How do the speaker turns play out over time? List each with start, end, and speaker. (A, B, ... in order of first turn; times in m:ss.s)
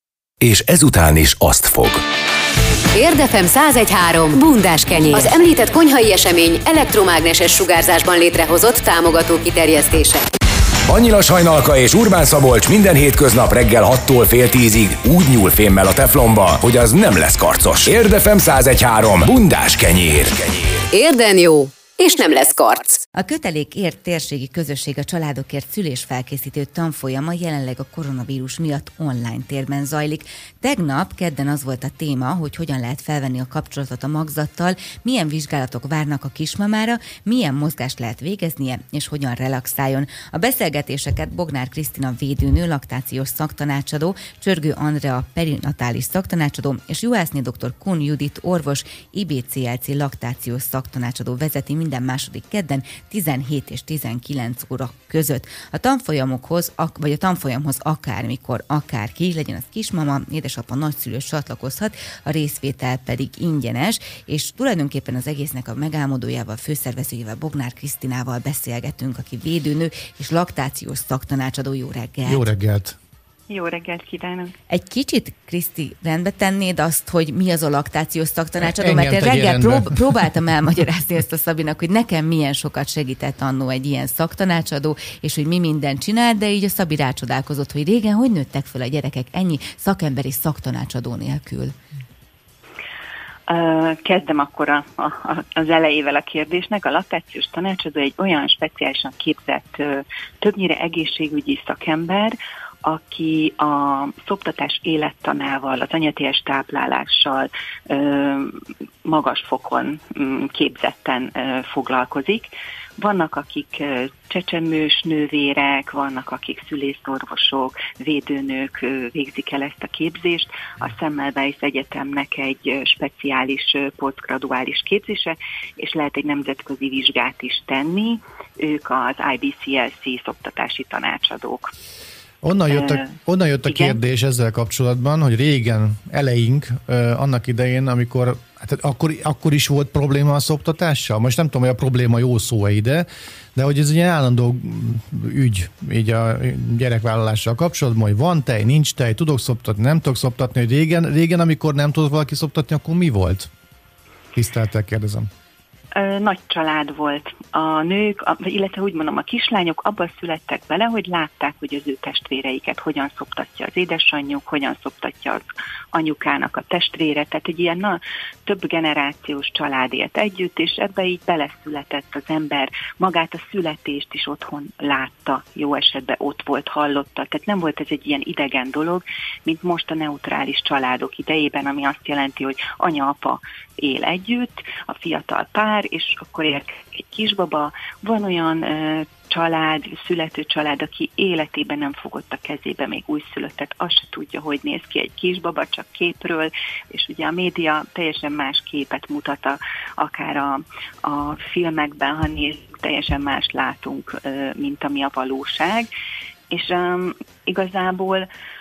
0:00.4-0:02.0 A
0:03.0-0:10.3 B
0:10.9-0:20.8 A
0:20.9-0:23.0 B
0:23.2-1:12.4 C
1:12.3-1:13.0 D
1:13.5-1:14.6 E
1:14.7-1:31.8 C
1:18.6-1:20.2 D
1:33.5-2:11.7 E
2:12.4-2:33.5 D
2:12.7-2:13.1 E
2:13.7-2:14.0 E
2:34.4-2:35.3 D
2:36.0-3:25.9 E
3:26.5-3:28.3 E